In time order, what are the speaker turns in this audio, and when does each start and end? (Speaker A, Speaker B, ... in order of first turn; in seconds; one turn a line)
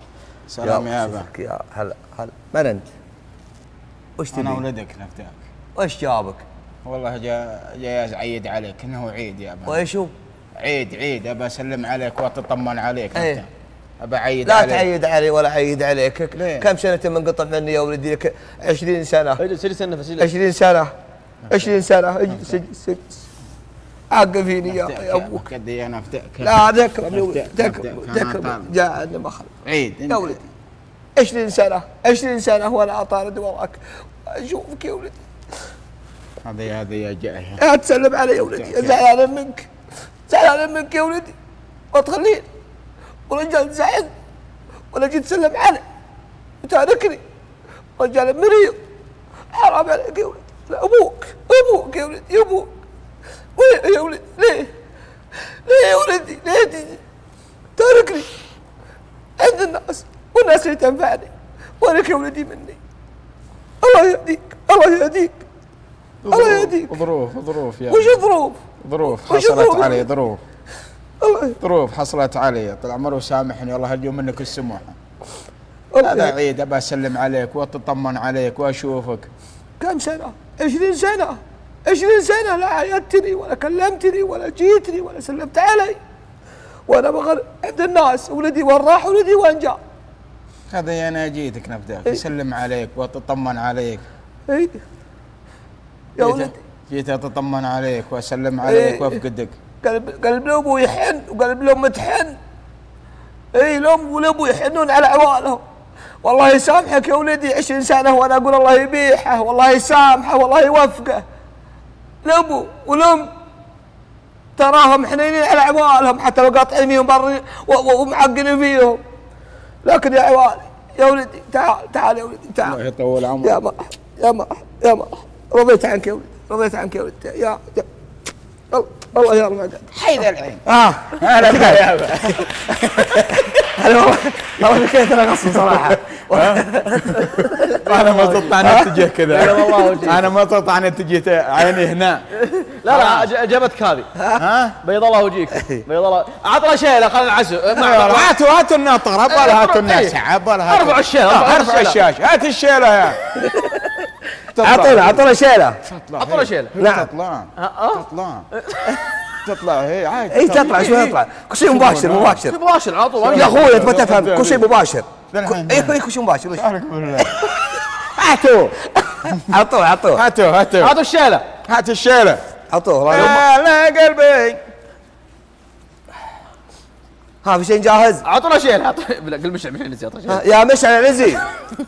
Speaker A: 0.5-1.3
Speaker B: 0.6-2.9
Speaker B: 4.2-4.6
Speaker A: 4.3-5.5
Speaker B: 5.8-6.5
Speaker A: 6.8-9.8
Speaker B: 9.7-10.1
Speaker A: 10.6-14.9
Speaker B: 13.2-13.4
Speaker B: 14.4-19.4
Speaker A: 16.4-16.7
Speaker C: 19.4-20.3
Speaker B: 20.2-20.9
Speaker A: 21.4-22.6
Speaker B: 21.5-23.2
Speaker B: 24.1-25.4
Speaker A: 24.6-28.8
Speaker B: 26.4-29.6
Speaker A: 29.6-30.5
Speaker B: 30.1-30.4
Speaker B: 31.2-35.2
Speaker A: 36.4-37.6
Speaker B: 37.6-39.7
Speaker A: 38.4-39.0
Speaker B: 40.3-41.4
Speaker B: 41.9-42.5
Speaker B: 43.3-44.1
Speaker B: 44.9-45.8
Speaker B: 46.6-47.2
Speaker B: 48.0-48.8
Speaker B: 49.5-52.7
Speaker B: 53.6-54.7
Speaker B: 55.6-57.0
Speaker B: 57.8-58.3
Speaker B: 59.4-62.8
Speaker B: 63.8-65.5
Speaker A: 66.2-68.3
Speaker B: 66.3-67.0
Speaker B: 67.9-68.6
Speaker A: 68.8-70.4
Speaker B: 69.2-70.0
Speaker B: 71.2-71.6
Speaker A: 71.6-75.0
Speaker B: 75.9-76.4
Speaker A: 76.0-79.3
Speaker B: 79.8-86.0
Speaker B: 86.9-89.8
Speaker A: 90.7-94.0
Speaker B: 94.5-94.8
Speaker B: 96.2-96.6
Speaker A: 96.2-99.6
Speaker B: 98.6-99.2
Speaker B: 99.8-102.4
Speaker B: 103.5-105.6
Speaker B: 106.2-111.2
Speaker B: 112.2-113.3
Speaker B: 114.6-119.0
Speaker B: 119.8-122.8
Speaker A: 122.6-123.6
Speaker B: 123.4-127.9
Speaker B: 128.7-129.9
Speaker A: 129.9-130.6
Speaker B: 130.7-131.8
Speaker A: 131.2-133.6
Speaker B: 133.1-137.8
Speaker A: 135.6-142.2
Speaker C: 137.9-138.5
Speaker B: 138.6-138.9
Speaker C: 139.3-140.3
Speaker C: 142.4-144.1
Speaker A: 142.9-143.3
Speaker B: 144.2-144.4
Speaker A: 144.4-144.8
Speaker C: 144.8-148.3
Speaker A: 147.7-153.2
Speaker C: 149.3-150.2
Speaker C: 150.7-152.0
Speaker B: 153.4-155.8
Speaker A: 154.5-155.3
Speaker A: 155.8-158.5
Speaker C: 156.2-156.7
Speaker B: 156.8-157.1
Speaker C: 157.6-159.0
Speaker A: 159.4-162.4
Speaker B: 160.3-162.6
Speaker C: 162.4-163.8
Speaker A: 163.2-164.7
Speaker B: 163.3-166.7
Speaker A: 165.3-166.0
Speaker A: 166.5-169.6
Speaker B: 167.2-167.5
Speaker B: 169.1-170.2
Speaker A: 170.1-170.9
Speaker C: 170.8-171.4
Speaker A: 171.7-172.4
Speaker B: 172.7-173.3
Speaker A: 173.1-174.6
Speaker C: 173.1-173.4
Speaker B: 177.4-178.2
Speaker C: 178.2-180.5
Speaker B: 180.3-181.4